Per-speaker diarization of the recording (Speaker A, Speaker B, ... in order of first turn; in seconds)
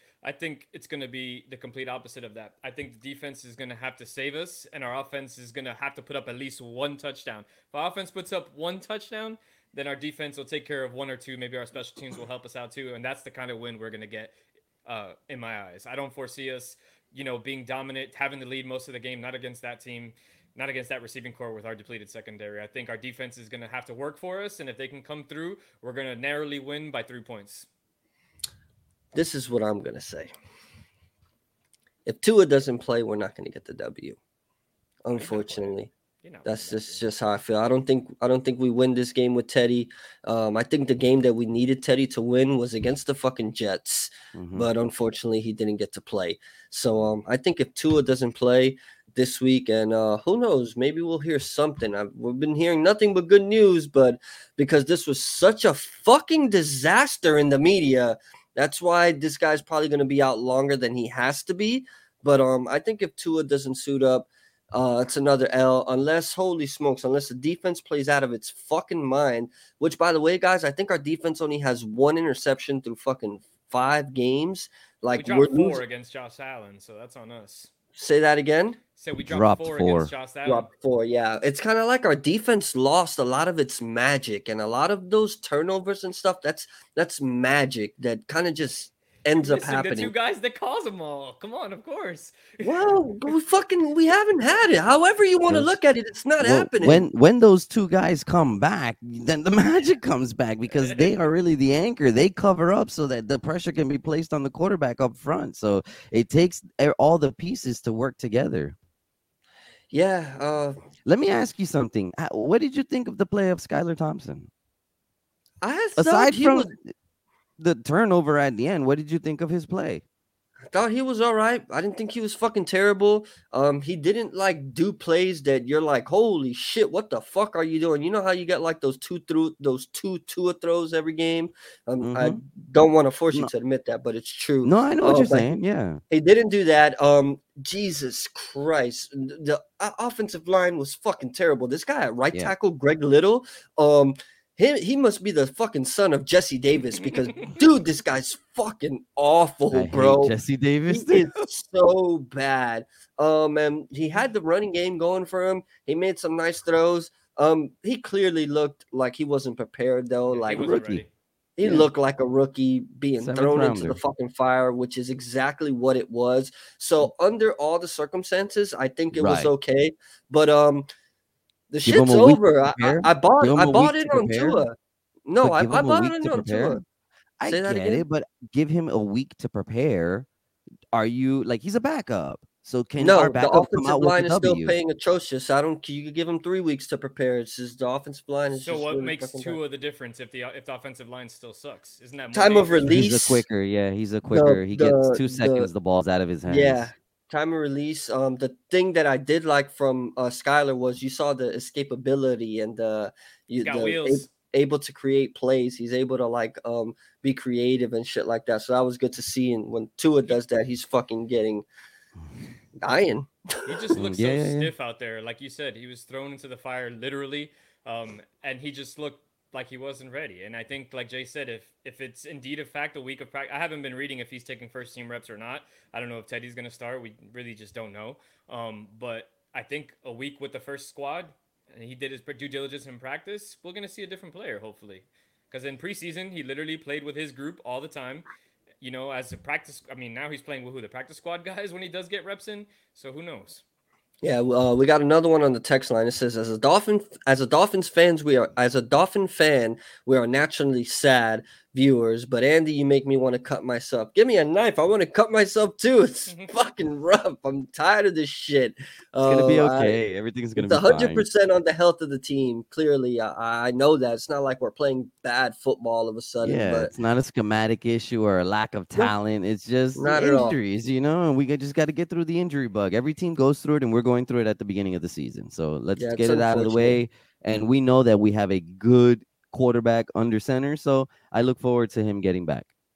Speaker A: 0.2-27.7, 35.1-37.0, 75.1-77.7, 79.0-80.7, 89.4-93.0, 100.7-101.1, 147.1-147.6, 160.3-161.1, 188.5-192.9, 203.6-204.3, 213.7-238.2, 238.8-243.6
Speaker B: 29.1-30.3, 32.0-34.2, 35.0-35.9, 36.5-75.8, 78.0-78.8, 80.4-90.1, 92.6-97.0, 109.9-110.8, 115.6-116.7, 120.7-135.5, 136.1-150.3, 150.9-160.7, 161.6-170.9, 171.7-174.8, 175.3-176.8, 177.5-178.0, 183.0-189.6, 192.3-193.4, 194.3-195.7, 196.5-211.7, 212.8-213.8, 244.2-260.0, 260.6-266.9, 269.9-270.6, 276.0-277.0
Speaker C: 44.3-44.7, 79.2-80.1, 95.5-95.7, 96.4-108.8, 111.0-114.5, 116.0-116.9, 117.6-120.0, 132.0-132.4, 134.6-136.0, 149.7-151.3, 160.5-161.0, 161.6-161.9, 163.2-164.0, 169.1-169.5, 171.8-174.6, 175.4-176.8, 177.4-180.3, 180.9-184.7, 192.8-196.9, 213.9-214.7, 259.2-261.2, 266.4-282.7